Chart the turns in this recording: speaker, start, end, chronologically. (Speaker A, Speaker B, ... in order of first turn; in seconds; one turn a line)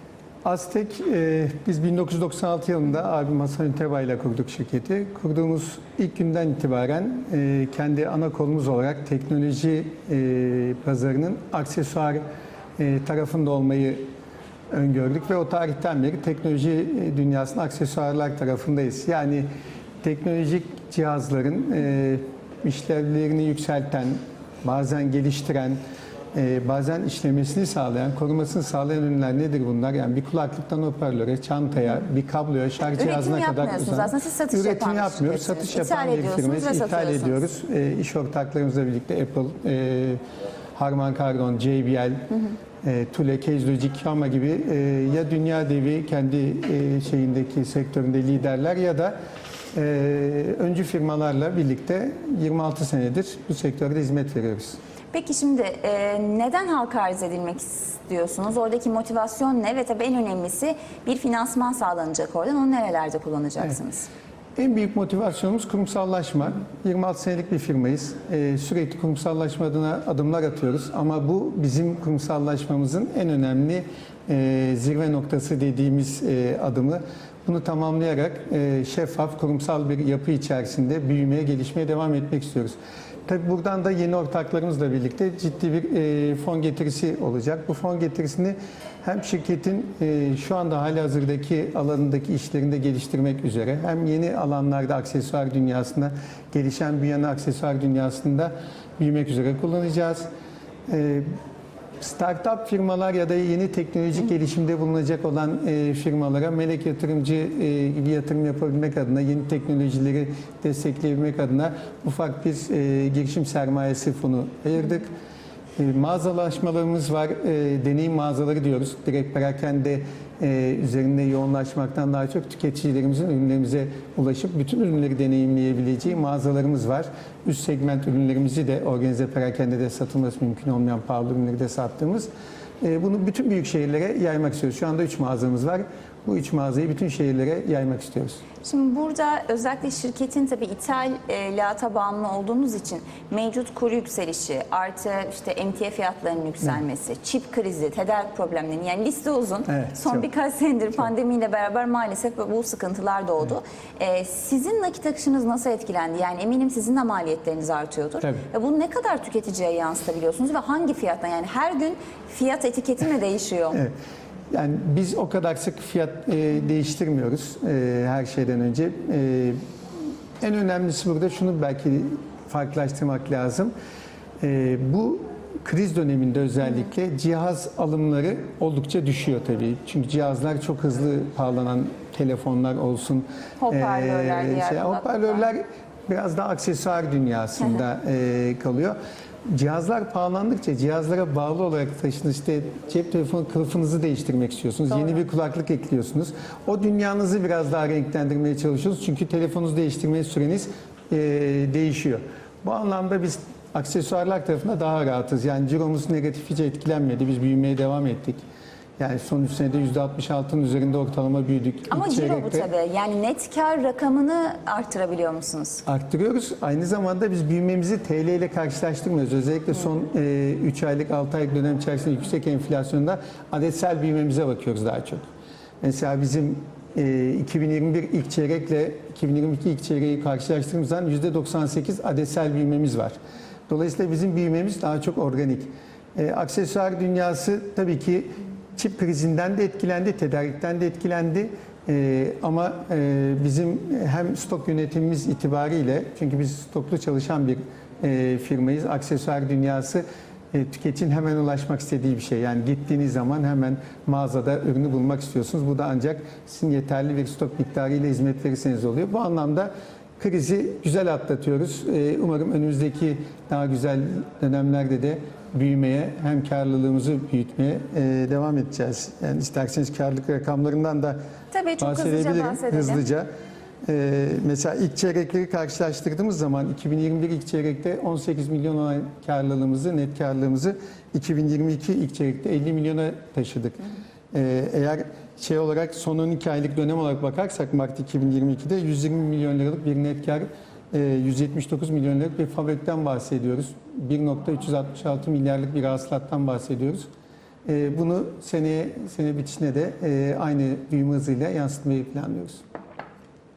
Speaker A: 0.4-12.2
Speaker A: 12.8-14.1
Speaker A: 14.7-19.5
Speaker A: 20.0-25.8
Speaker A: 26.3-40.2
Speaker B: 32.9-37.5
Speaker A: 40.8-49.1
Speaker A: 49.7-54.8
Speaker B: 55.1-64.1
Speaker A: 64.6-82.8
Speaker A: 83.3-100.3
Speaker A: 100.9-101.3
Speaker A: 102.0-115.1
Speaker A: 115.8-132.3
Speaker A: 132.8-138.4
Speaker B: 138.6-163.8
Speaker A: 149.7-150.3
Speaker A: 158.2-158.5
Speaker A: 164.5-169.6
Speaker A: 170.4-173.7
Speaker A: 174.4-189.0
Speaker B: 183.6-185.4
Speaker A: 189.5-208.4
Speaker A: 209.0-212.7
Speaker B: 211.9-215.8
Speaker A: 215.9-225.2
Speaker A: 225.8-233.2
Speaker A: 233.7-271.2
Speaker B: 271.5-273.0
Speaker A: 271.8-273.3
Speaker A: 273.9-297.1
Speaker A: 297.7-302.6